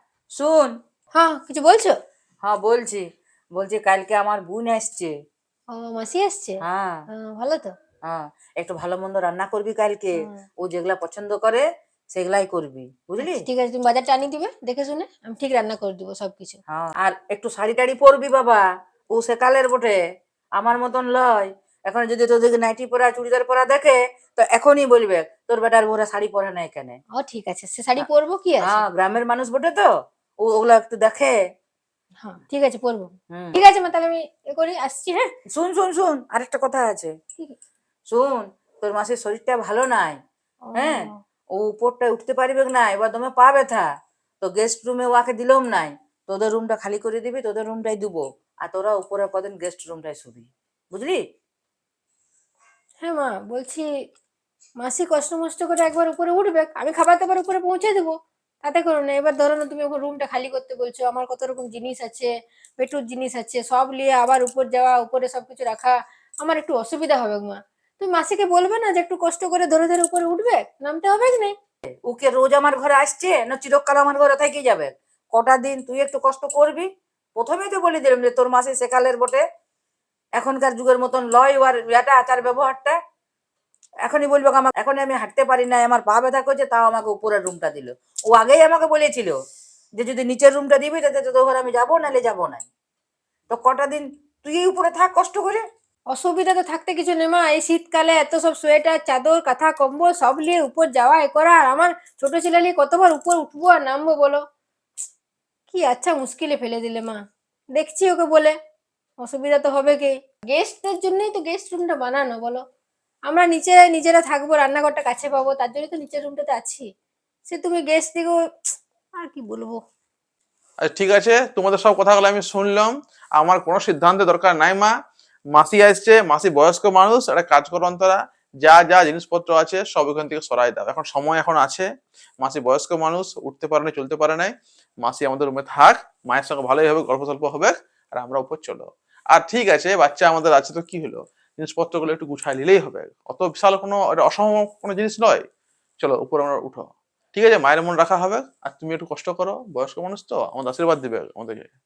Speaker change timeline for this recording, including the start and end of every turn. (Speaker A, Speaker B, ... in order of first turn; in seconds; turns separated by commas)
Speaker A: 0.4-0.7, Speaker B: 1.1-2.0, Speaker A: 2.4-3.0, Speaker A: 3.6-5.1, Speaker B: 5.7-6.6, Speaker A: 6.6-7.0, Speaker B: 7.1-7.7, Speaker A: 8.1-13.4, Speaker B: 13.2-16.6, Speaker A: 16.7-18.6, Speaker A: 19.1-20.0, Speaker A: 20.6-27.0, Speaker B: 27.2-28.8, Speaker A: 28.6-29.9, Speaker A: 30.4-31.4, Speaker B: 32.2-35.3, Speaker A: 33.3-33.6, Speaker A: 35.5-37.1, Speaker A: 38.1-40.2, Speaker B: 40.6-41.1, Speaker A: 40.7-43.9, Speaker A: 44.4-51.2, Speaker B: 53.0-53.9, Speaker B: 54.8-71.5, Speaker A: 72.0-79.4, Speaker A: 80.4-83.0, Speaker A: 84.0-89.3, Speaker A: 90.0-92.7, Speaker A: 93.5-95.6, Speaker B: 96.1-104.4, Speaker B: 105.7-107.2, Speaker B: 107.8-108.5, Speaker B: 109.2-112.6, Speaker B: 113.3-116.9, Speaker B: 117.5-118.4, Speaker B: 119.2-119.8, Speaker C: 120.8-124.9, Speaker C: 125.5-131.9, Speaker C: 132.4-145.4, Speaker C: 146.0-151.7